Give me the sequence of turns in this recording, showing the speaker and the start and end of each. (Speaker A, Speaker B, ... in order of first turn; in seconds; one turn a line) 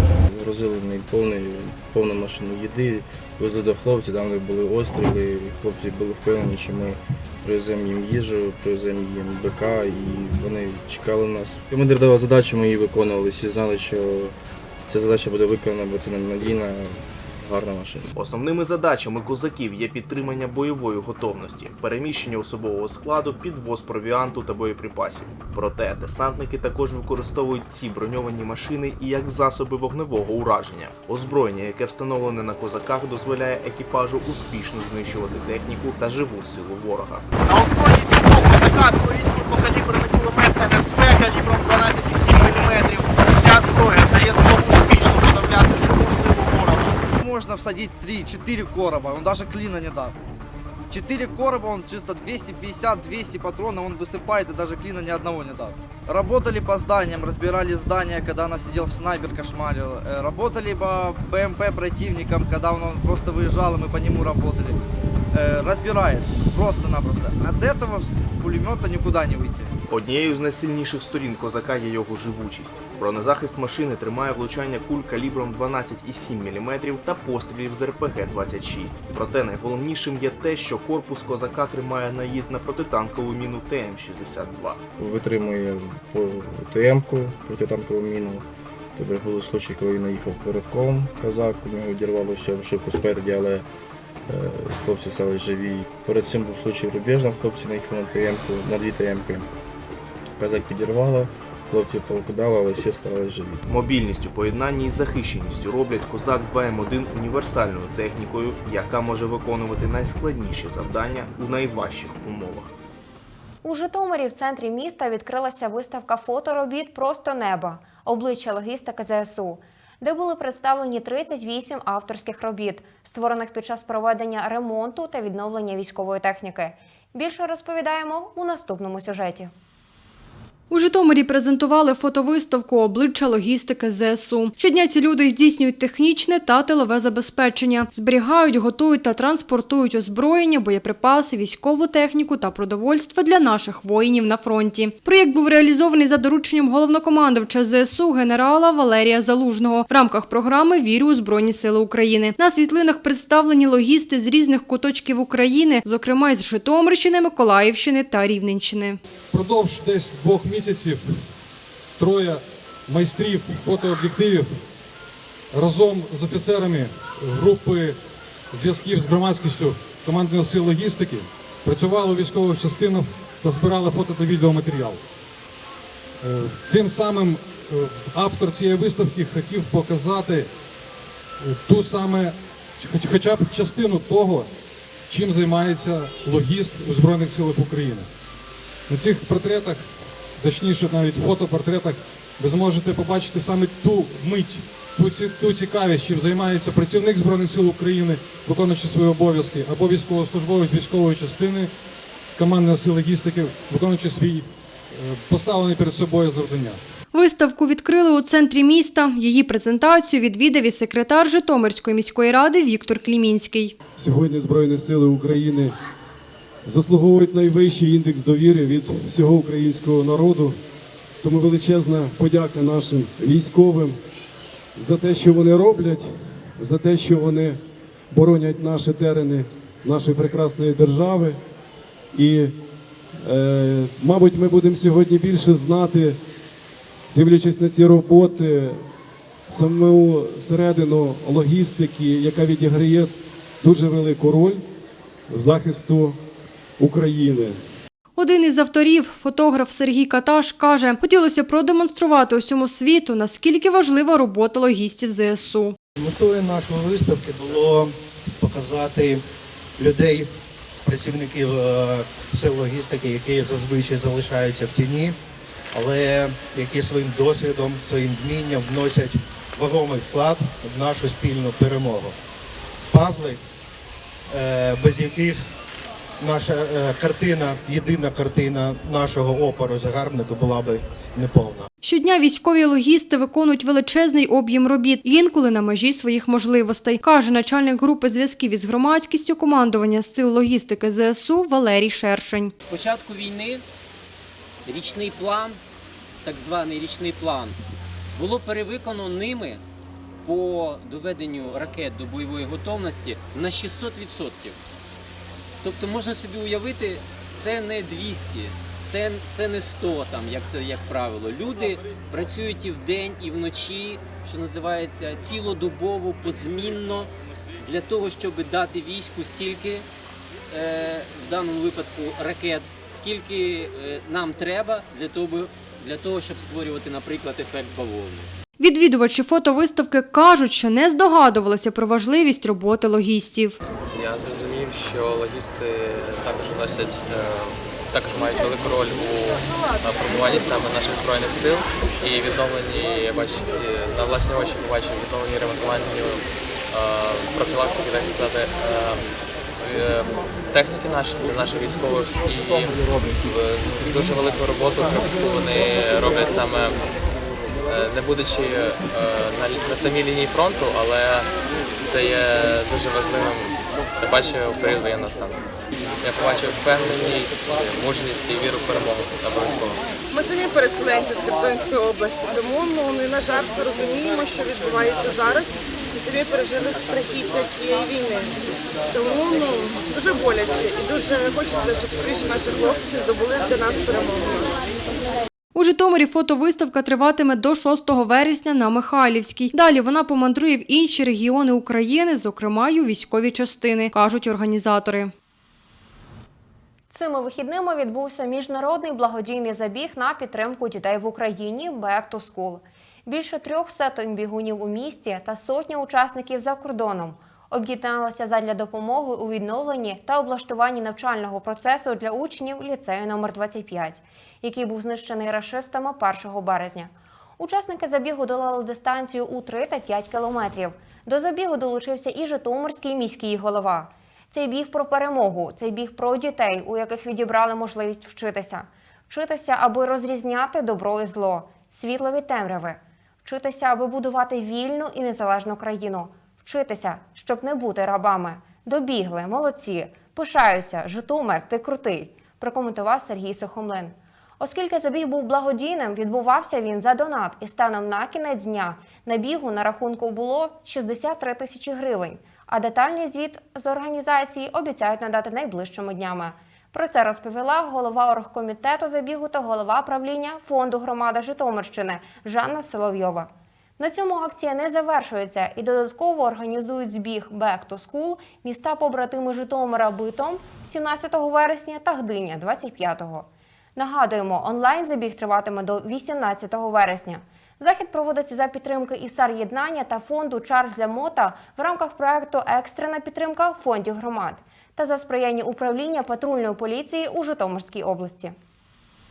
Speaker A: 0.3-14.3
Speaker A: 14.9-18.1
Speaker B: 18.1-37.2
Speaker C: 37.4-47.0
Speaker D: 47.2-50.2
Speaker D: 50.9-64.8
Speaker D: 65.3-69.7
Speaker B: 69.9-84.8
Speaker A: 85.0-93.7
Speaker A: 94.3-99.5
Speaker A: 100.4-103.6
Speaker B: 103.7-112.7
Speaker E: 113.6-129.5
Speaker F: 130.7-159.0
Speaker G: 159.3-161.1
Speaker G: 162.0-164.6
Speaker G: 165.5-168.0
Speaker G: 168.5-175.0
Speaker G: 176.2-180.5
Speaker G: 181.4-184.5
Speaker G: 185.1-188.1
Speaker G: 188.9-189.9
Speaker G: 190.4-201.7
Speaker G: 202.4-206.8
Speaker F: 207.1-213.7
Speaker H: 214.0-215.7
Speaker H: 216.7-220.6
Speaker H: 221.2-224.0
Speaker H: 224.8-227.6
Speaker H: 228.1-231.4
Speaker H: 232.1-232.6
Speaker H: 233.2-236.2
Speaker H: 237.1-238.8
Speaker H: 239.5-244.6
Speaker H: 245.3-246.2
Speaker H: 246.8-247.6
Speaker F: 248.2-255.8
Speaker I: 256.0-259.2
Speaker I: 259.8-260.3
Speaker I: 260.8-265.2
Speaker I: 265.7-272.1
Speaker I: 272.9-273.4
Speaker I: 274.3-275.4
Speaker I: 276.2-281.7
Speaker F: 281.8-292.5
Speaker J: 292.6-293.6
Speaker J: 294.7-295.6
Speaker J: 296.2-297.6
Speaker J: 298.1-299.6
Speaker J: 300.2-304.6
Speaker J: 305.6-319.9
Speaker J: 320.5-328.3
Speaker F: 328.6-333.6
Speaker K: 333.9-356.9
Speaker K: 357.7-365.5
Speaker K: 366.0-369.8
Speaker L: 370.1-378.4
Speaker L: 378.9-384.6
Speaker F: 385.6-395.1
Speaker E: 396.9-488.3